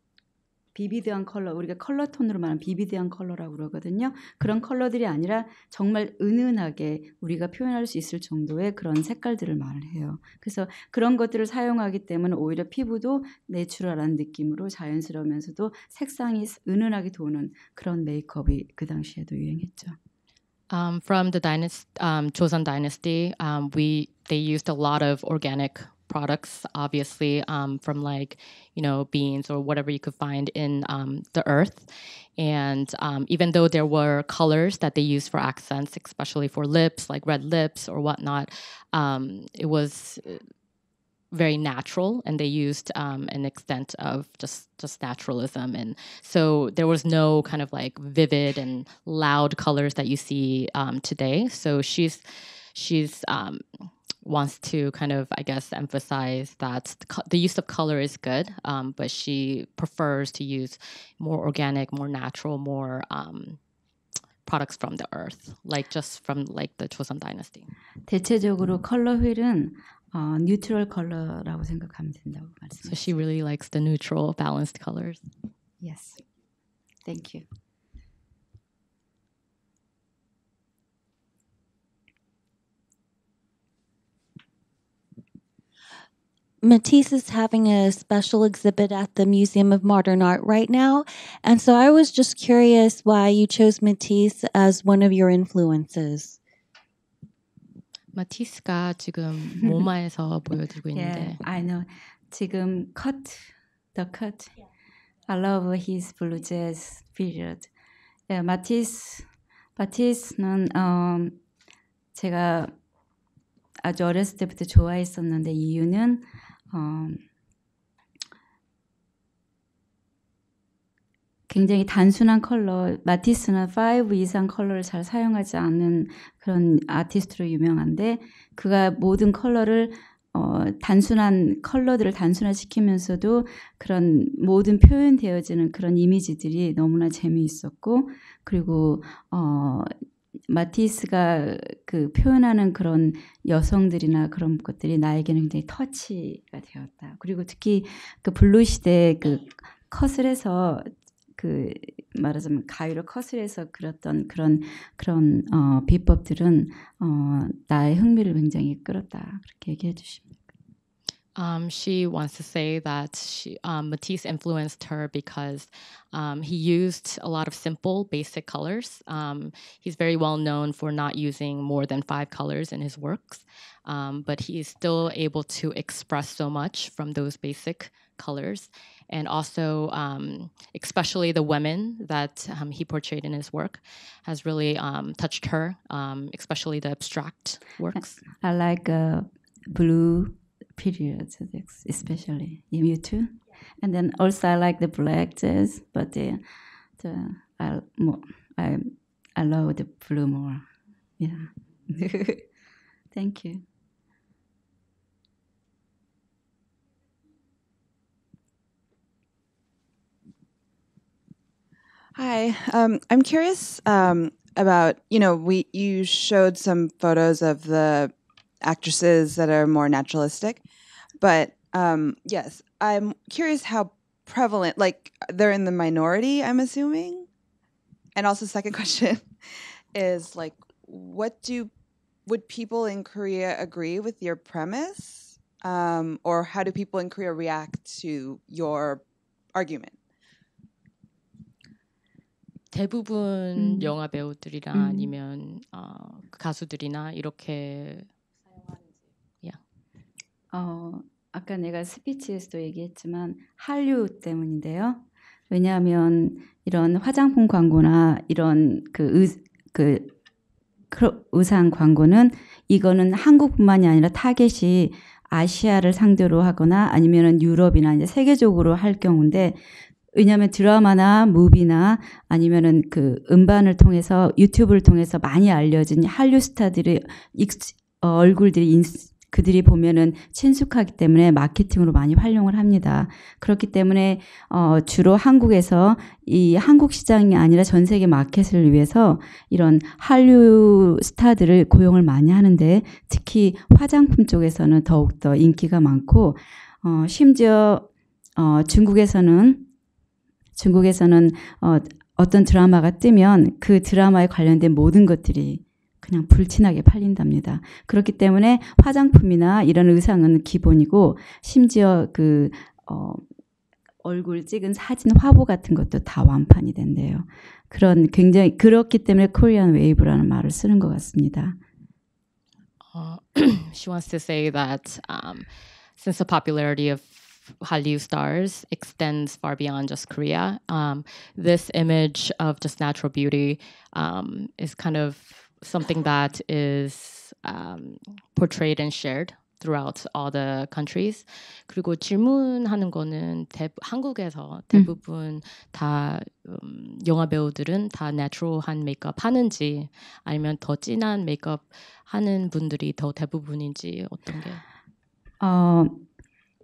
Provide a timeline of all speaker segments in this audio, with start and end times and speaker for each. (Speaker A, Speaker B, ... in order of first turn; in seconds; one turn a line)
Speaker A: 0.7-20.0
Speaker B: 20.7-40.4
Speaker B: 41.3-52.2
Speaker B: 52.7-53.6
Speaker B: 54.2-63.6
Speaker B: 64.4-67.7
Speaker A: 68.1-73.1
Speaker B: 72.8-75.2
Speaker A: 75.8-76.2
Speaker A: 77.0-77.5
Speaker C: 86.6-96.4
Speaker B: 98.1-101.4
Speaker A: 100.9-104.5
Speaker A: 105.2-107.7
Speaker A: 108.3-111.4
Speaker A: 112.1-112.7
Speaker A: 113.8-117.2
Speaker A: 121.5-139.9
Speaker A: 140.5-160.5
Speaker B: 161.3-188.2
Speaker A: 187.9-196.4
Speaker A: 197.0-200.7
Speaker A: 201.2-202.4
Speaker A: 203.1-203.6
Speaker D: 212.1-220.6
Speaker D: 221.2-227.3
Speaker D: 228.1-231.7
Speaker D: 232.2-239.0
Speaker D: 239.5-240.0
Speaker B: 242.7-248.1
Speaker A: 243.6-243.9
Speaker A: 244.7-245.1
Speaker A: 250.5-260.1
Speaker A: 260.9-269.6
Speaker A: 270.1-299.7
Speaker A: 300.6-313.2
Speaker A: 314.0-321.6
Speaker B: 322.9-325.5
Speaker B: 326.0-354.6
Speaker A: 355.4-356.0